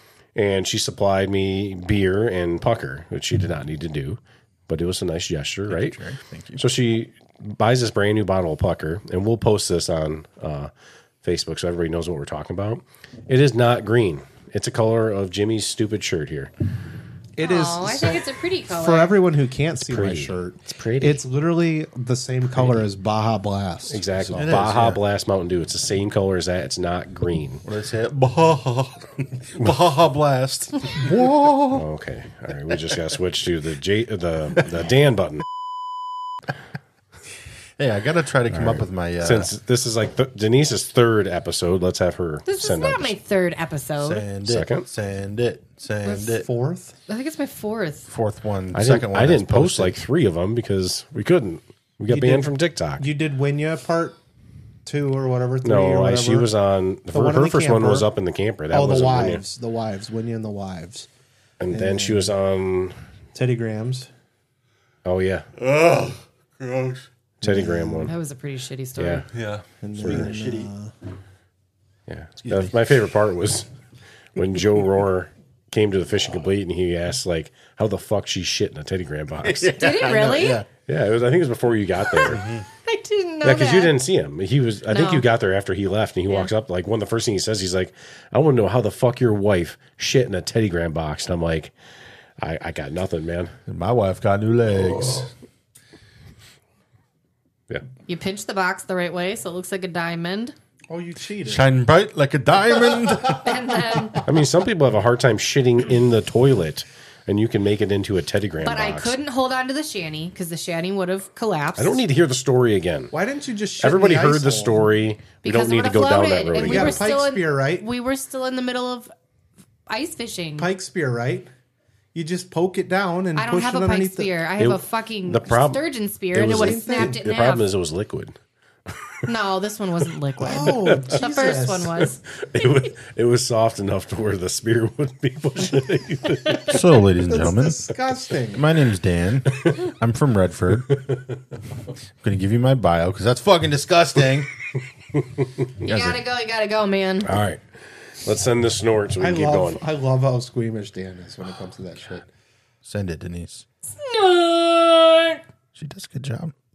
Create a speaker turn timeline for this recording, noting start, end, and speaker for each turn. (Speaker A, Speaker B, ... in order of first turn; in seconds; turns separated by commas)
Speaker A: 0.3-6.0, Speaker B: 5.7-6.6, Speaker A: 6.6-10.7, Speaker A: 11.2-16.5, Speaker C: 17.4-24.4, Speaker D: 17.4-19.2, Speaker A: 19.9-21.2, Speaker A: 23.9-27.6, Speaker B: 24.4-25.0, Speaker B: 27.6-31.6, Speaker C: 31.1-31.7, Speaker A: 31.7-35.5, Speaker B: 37.8-39.5, Speaker A: 38.5-43.1, Speaker D: 42.5-44.2, Speaker B: 44.0-46.5, Speaker A: 44.5-44.9, Speaker C: 46.3-47.0, Speaker D: 47.1-48.1, Speaker B: 48.1-50.0, Speaker A: 48.7-53.1, Speaker C: 52.1-54.2, Speaker C: 54.9-56.5, Speaker A: 55.6-59.4, Speaker C: 57.1-58.1, Speaker C: 58.7-61.1, Speaker A: 61.6-63.0, Speaker C: 61.7-62.3, Speaker C: 63.3-64.1, Speaker A: 65.0-65.5, Speaker B: 65.6-67.1, Speaker A: 67.4-68.1, Speaker C: 67.4-68.0, Speaker D: 68.0-69.3, Speaker A: 69.0-69.2, Speaker B: 69.3-70.7, Speaker C: 69.8-70.9, Speaker A: 70.0-70.3, Speaker A: 72.1-73.7, Speaker B: 72.4-72.8, Speaker A: 74.4-79.9, Speaker B: 79.4-80.7, Speaker D: 79.8-80.6, Speaker A: 80.9-82.4, Speaker B: 82.3-82.7, Speaker D: 82.3-84.0, Speaker A: 83.4-91.7, Speaker D: 84.9-85.3, Speaker A: 92.4-93.5, Speaker B: 93.7-95.3, Speaker A: 94.8-95.2, Speaker D: 98.1-100.5, Speaker C: 100.9-101.7, Speaker B: 101.5-103.6, Speaker D: 103.3-104.2, Speaker A: 104.2-109.1, Speaker D: 108.6-112.0, Speaker A: 111.8-113.1, Speaker C: 113.1-114.9, Speaker A: 113.8-117.1, Speaker D: 115.4-119.1, Speaker C: 116.6-117.9, Speaker D: 119.9-120.7, Speaker C: 120.6-121.5, Speaker C: 122.1-124.3, Speaker D: 123.4-127.7, Speaker A: 124.6-125.8, Speaker A: 126.3-128.4, Speaker C: 126.4-127.2, Speaker D: 129.3-132.2, Speaker C: 130.4-132.1, Speaker A: 130.5-131.0, Speaker A: 132.4-136.7, Speaker B: 136.6-137.9, Speaker C: 137.3-138.6, Speaker B: 138.5-141.0, Speaker B: 142.2-144.5, Speaker B: 145.8-146.2, Speaker D: 145.8-147.3, Speaker A: 147.3-149.8, Speaker C: 149.2-152.2, Speaker B: 152.8-153.6, Speaker D: 153.9-155.4, Speaker B: 155.8-156.5